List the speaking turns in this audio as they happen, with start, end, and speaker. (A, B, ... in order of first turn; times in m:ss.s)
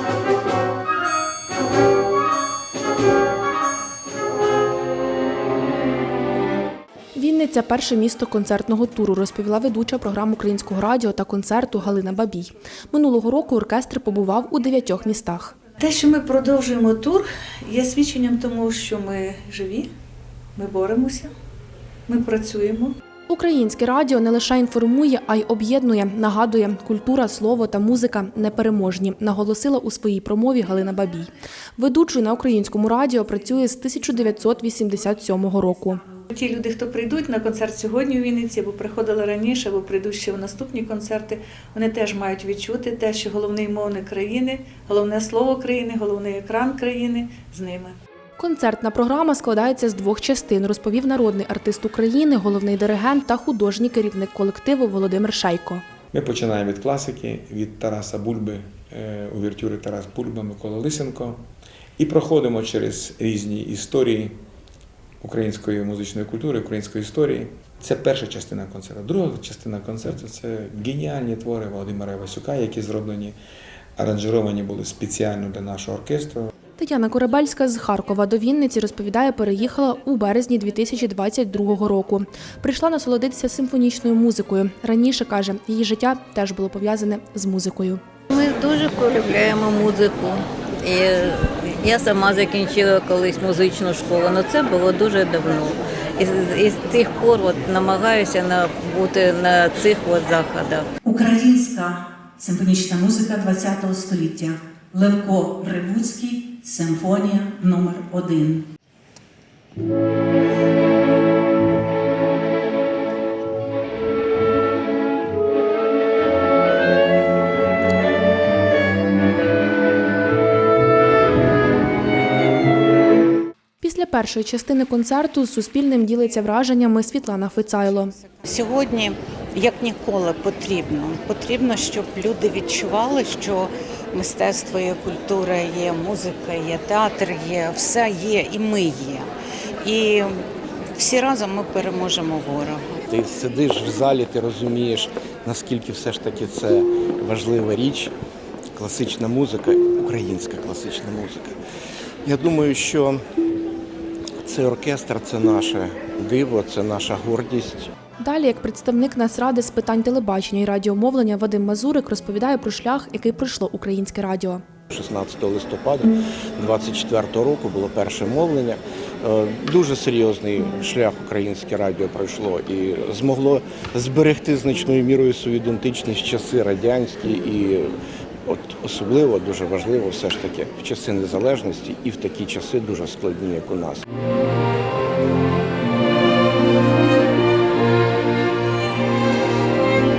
0:07.2-0:15.6 A
0:15.8-0:19.9 B
0:20.6-0:21.3 B
0:22.1-0:23.0 B
0:23.3-0:36.0 A
0:36.3-0:48.0 B
0:48.4-0:55.8 A
0:56.1-1:01.4 C
1:02.0-1:04.4 C
1:05.2-1:13.4 C
1:14.0-1:16.5 C
1:16.8-1:28.0 A
1:28.3-1:41.7 D
1:42.4-1:44.1 D
1:42.4-1:43.5 E
1:44.1-1:46.2 E
1:45.0-1:48.6 D
1:46.9-1:48.1 E
2:03.8-2:08.1 A
2:08.4-2:23.0 F
2:23.1-2:28.1 G
2:28.8-2:31.6 G
2:32.2-2:33.2 G
2:34.4-2:37.9 G
2:38.2-2:44.6 A
2:44.9-2:58.0 G
2:58.5-3:04.0 G